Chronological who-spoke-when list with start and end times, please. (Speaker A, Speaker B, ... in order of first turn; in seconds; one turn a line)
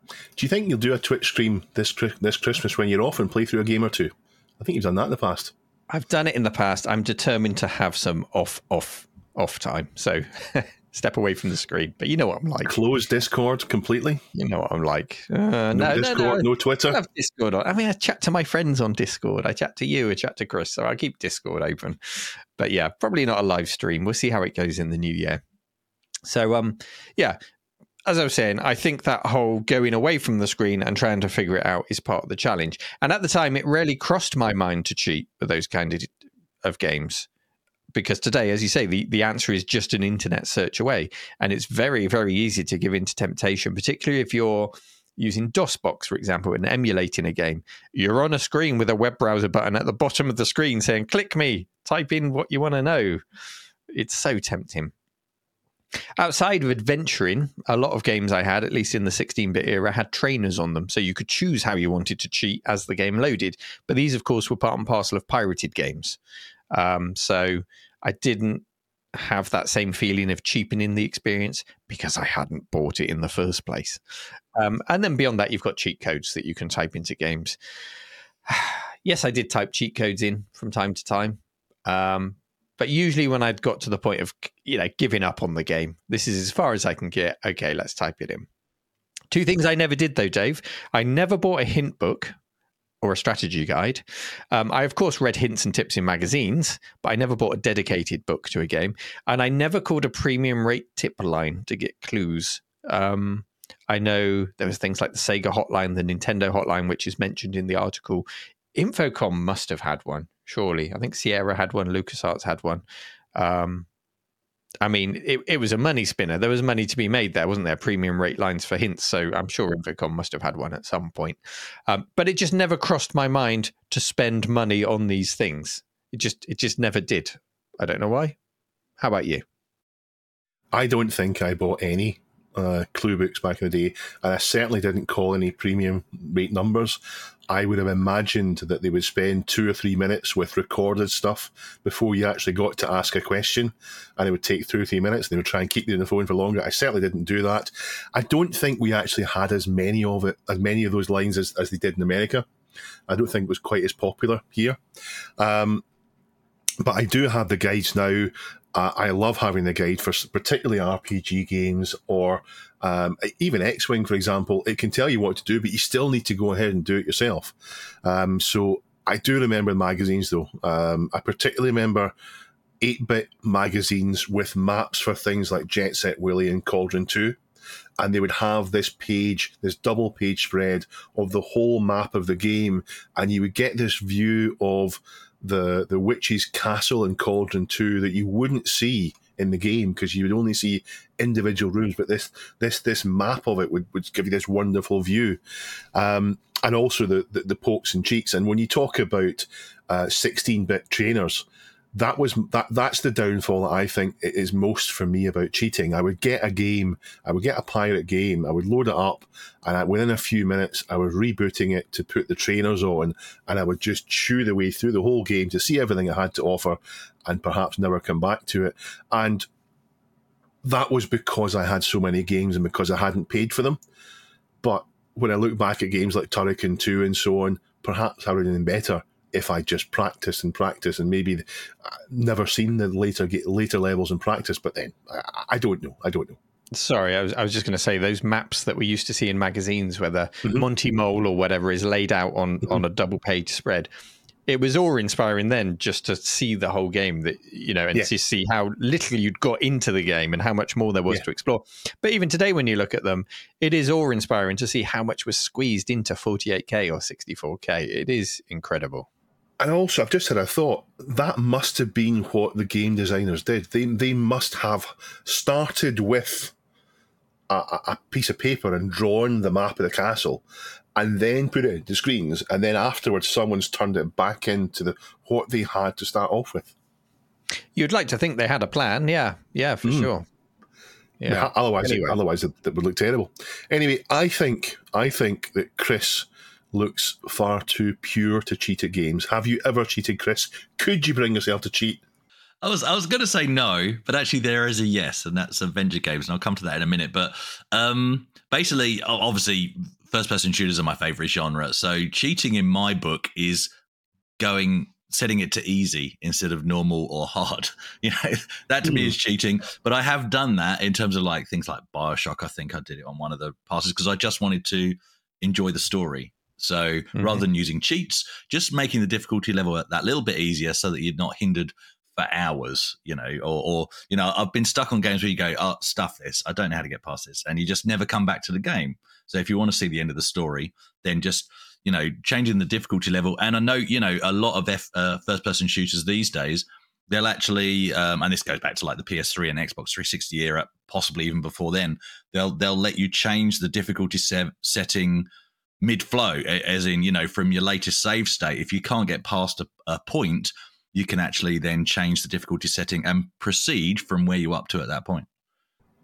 Speaker A: 0.4-5.5
Speaker B: 5.9-12.7
Speaker A: 12.6-14.2
Speaker B: 14.3-25.4
Speaker A: 15.7-17.0
Speaker B: 26.3-27.4
Speaker B: 28.1-37.3
Speaker B: 37.9-53.2
Speaker B: 53.9-54.9
Speaker B: 56.2-66.2
Speaker B: 66.7-68.6
Speaker B: 69.1-74.0
Speaker B: 74.5-77.6
Speaker B: 78.5-88.5
Speaker B: 89.3-92.3
Speaker B: 93.0-112.8
Speaker B: 113.3-113.9
Speaker B: 114.8-128.3
Speaker B: 129.0-129.4
Speaker A: 130.7-152.5
Speaker A: 153.1-154.8
Speaker A: 155.4-155.8
Speaker A: 156.8-172.1
Speaker A: 172.8-177.4
Speaker A: 178.0-195.4
Speaker A: 195.9-219.5
Speaker A: 220.6-223.8
Speaker A: 224.6-236.4
Speaker B: 236.7-243.9
Speaker B: 244.5-259.1
Speaker A: 259.6-266.5
Speaker A: 267.5-270.4
Speaker A: 270.9-276.7
Speaker B: 277.8-280.2
Speaker B: 281.2-282.1
Speaker A: 281.2-292.0
Speaker C: 292.6-303.7
Speaker C: 304.4-345.3
Speaker A: 308.9-309.1
Speaker C: 345.8-355.3